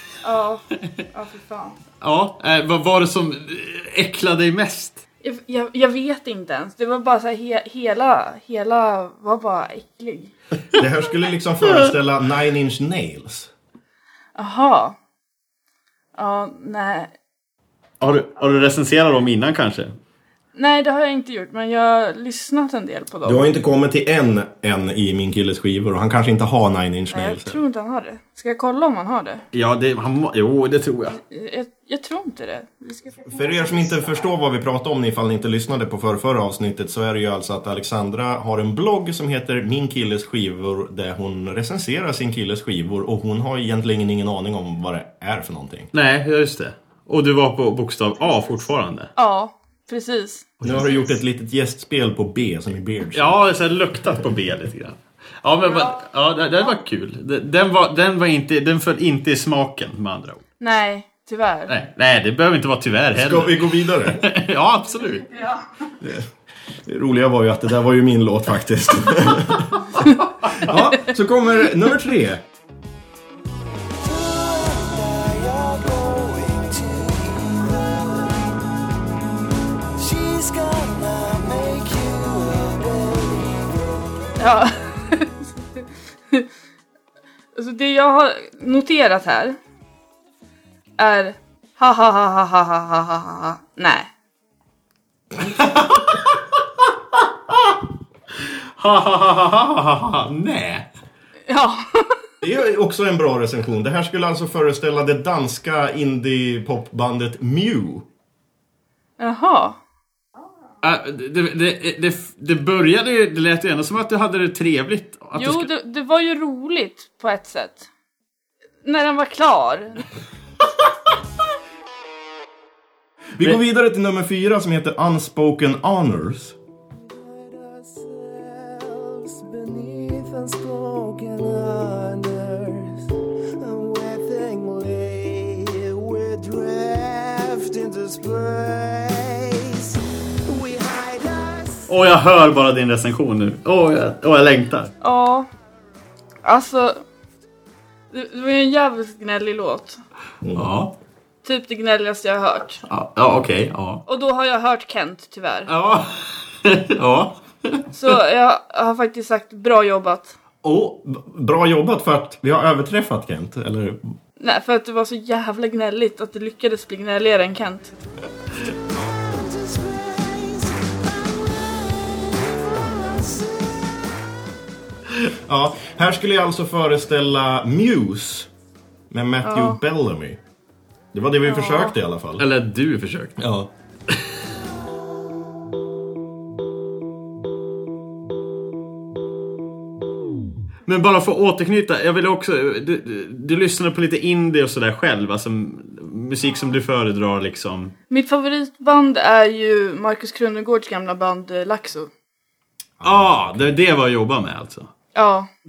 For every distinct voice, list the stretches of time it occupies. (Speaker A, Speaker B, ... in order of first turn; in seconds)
Speaker A: 0.2-1.8, 5.2-10.3, 14.4-15.0, 16.2-17.1, 20.6-23.4, 27.1-29.4, 31.2-33.7, 49.2-50.5, 60.6-61.7, 84.4-86.5, 87.5-89.6, 91.0-94.1, 101.5-102.2, 109.2-109.8, 115.3-117.9, 118.8-120.0, 145.0-145.5, 146.4-147.0, 148.1-150.0, 151.4-152.8, 154.1-155.7, 157.9-160.3, 164.4-167.9, 179.4-179.8, 181.5-181.9, 198.1-202.1, 205.2-205.5
Speaker B: 2.0-5.0, 18.0-19.9, 29.5-31.2, 45.9-49.1, 53.1-60.4, 61.7-65.3, 95.4-96.4, 98.4-100.9, 110.8-115.7, 141.9-144.9, 150.6-150.9, 152.9-154.0, 155.7-157.9, 182.4-183.4, 190.9-197.9, 203.0-204.9
Speaker C: 10.8-13.5, 23.2-27.6, 33.3-45.9, 50.6-53.4, 63.1-64.2, 66.0-66.3, 66.9-72.4, 102.4-108.1, 123.4-126.6, 150.4-150.7, 160.6-164.1, 175.3-178.5, 179.1-180.4, 181.1-182.5, 183.4-183.7, 203.0-203.7
Speaker D: 74.0-78.5, 80.0-84.0, 127.1-141.8, 168.9-173.8